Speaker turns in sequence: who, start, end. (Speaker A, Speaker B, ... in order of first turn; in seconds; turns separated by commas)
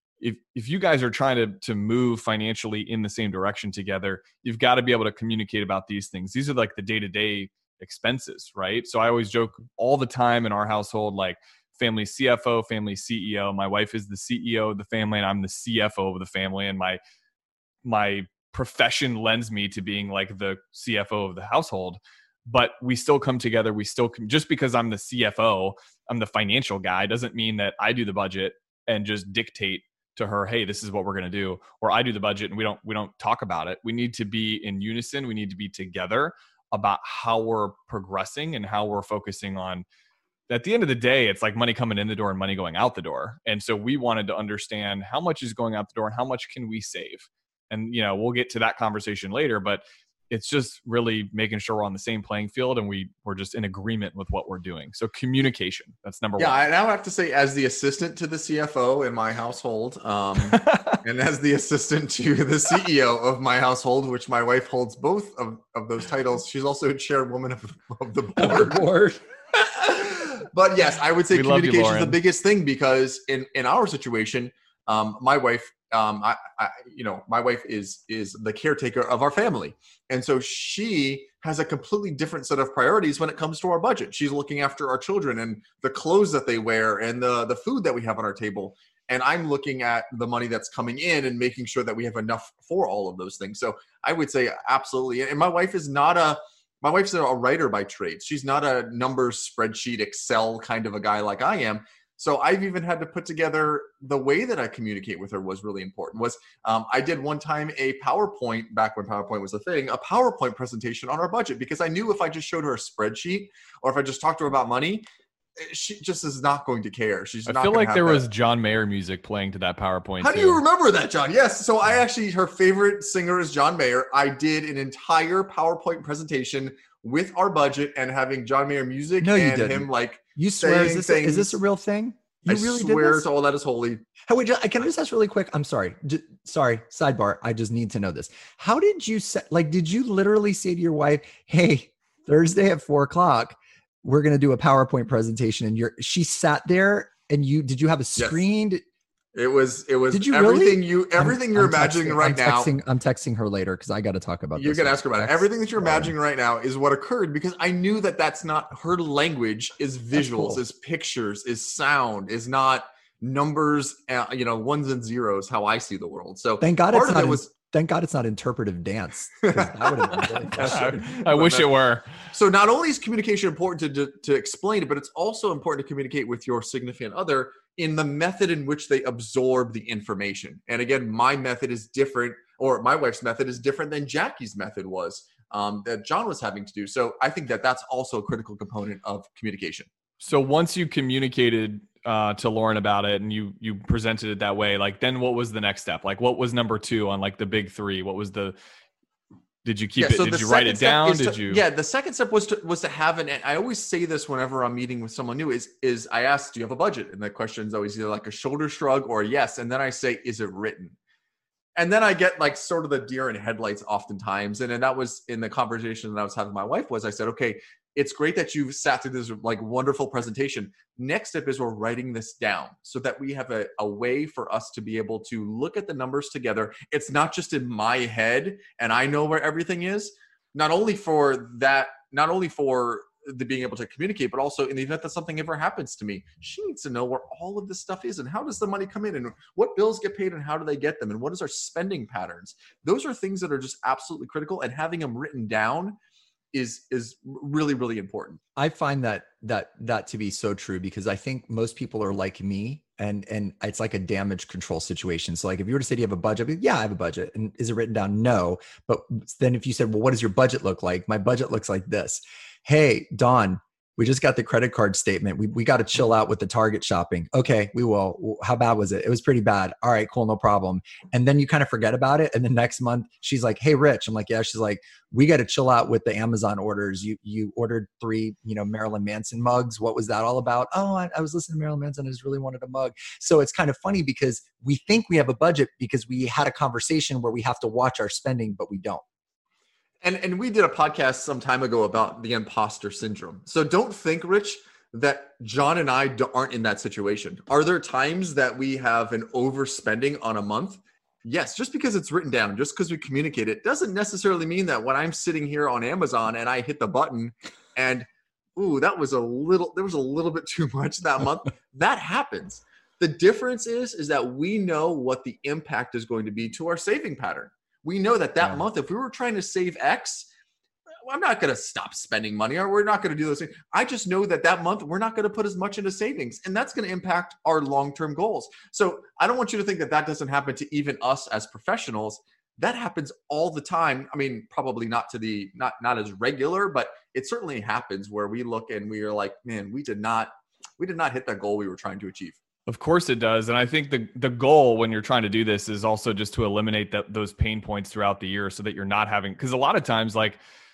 Speaker A: 0.2-17.0, Speaker A: 17.8-39.8, Speaker A: 40.5-56.6, Speaker B: 56.4-68.9, Speaker A: 60.4-61.0, Speaker C: 68.4-69.2, Speaker B: 69.5-115.0, Speaker A: 71.3-72.2, Speaker B: 115.6-118.2, Speaker A: 117.5-120.6, Speaker B: 120.2-131.6, Speaker C: 129.2-133.2, Speaker B: 132.5-134.1, Speaker C: 134.2-148.8, Speaker B: 149.3-152.7, Speaker C: 150.1-156.1, Speaker B: 154.6-167.5, Speaker C: 160.1-160.6, Speaker C: 166.6-170.9, Speaker B: 169.4-171.7, Speaker A: 170.5-172.1, Speaker B: 172.3-189.9, Speaker A: 190.2-198.6, Speaker A: 199.6-201.6, Speaker B: 200.0-211.0, Speaker B: 211.8-246.0, Speaker B: 246.5-248.4, Speaker C: 248.6-289.0, Speaker B: 290.0-320.3, Speaker B: 321.0-342.4, Speaker A: 342.7-350.4